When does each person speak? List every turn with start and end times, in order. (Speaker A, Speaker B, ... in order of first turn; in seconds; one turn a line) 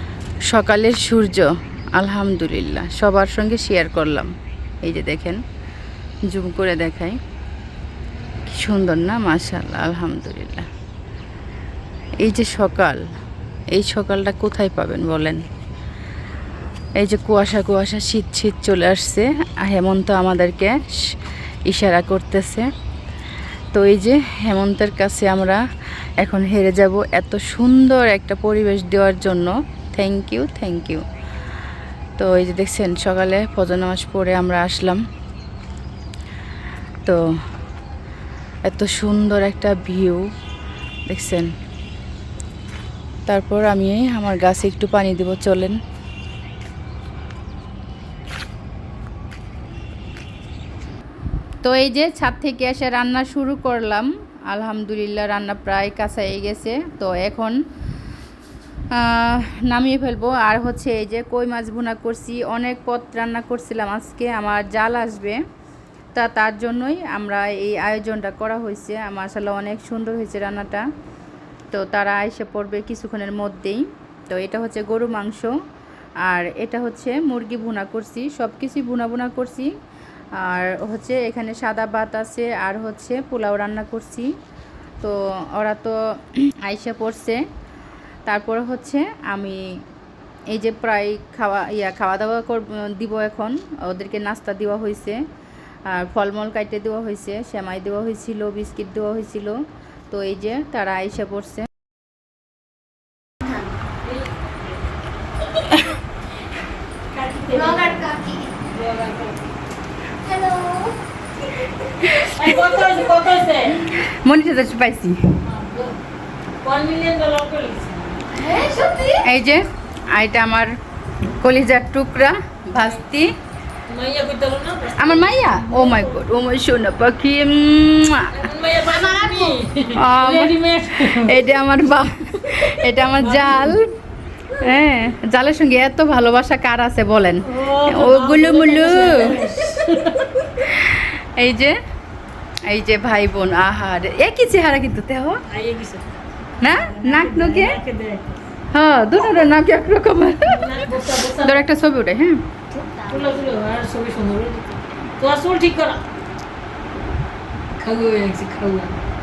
Speaker A: 0.5-5.4
Speaker A: 6.3-7.2
Speaker A: 8.5-10.7
Speaker A: 12.2-13.0
Speaker A: 13.7-15.4
Speaker A: 17.0-21.2
Speaker A: 21.7-22.7
Speaker A: 23.7-25.6
Speaker A: 26.2-31.1
Speaker A: 32.2-35.0
Speaker A: 38.6-40.3
Speaker A: 41.1-41.5
Speaker A: 43.3-45.8
Speaker A: 51.6-57.6
Speaker A: 58.9-65.4
Speaker A: 66.2-70.9
Speaker A: 71.7-75.5
Speaker A: 76.2-79.7
Speaker A: 80.4-84.3
Speaker A: 85.0-87.4
Speaker A: 88.3-89.6
Speaker A: 90.5-95.2
Speaker A: 95.9-99.6
Speaker A: 100.1-101.7
Speaker B: 107.1-109.5
Speaker C: 107.7-108.5
Speaker C: 110.2-111.0
Speaker B: 112.0-113.8
Speaker A: 112.2-112.5
Speaker A: 113.8-115.2
Speaker B: 115.4-116.0
Speaker B: 116.6-118.4
Speaker C: 118.4-119.2
Speaker A: 119.2-120.7
Speaker A: 121.4-123.4
Speaker B: 123.9-126.2
Speaker A: 125.0-128.3
Speaker B: 128.3-131.4
Speaker A: 129.9-133.9
Speaker B: 133.1-133.8
Speaker A: 134.6-139.4
Speaker B: 137.4-140.6
Speaker A: 140.5-141.8
Speaker A: 142.7-145.4
Speaker B: 145.5-148.4
Speaker A: 146.6-147.8
Speaker A: 148.7-150.6
Speaker B: 150.5-151.7
Speaker A: 151.3-152.4
Speaker B: 152.7-156.0
Speaker B: 157.8-159.0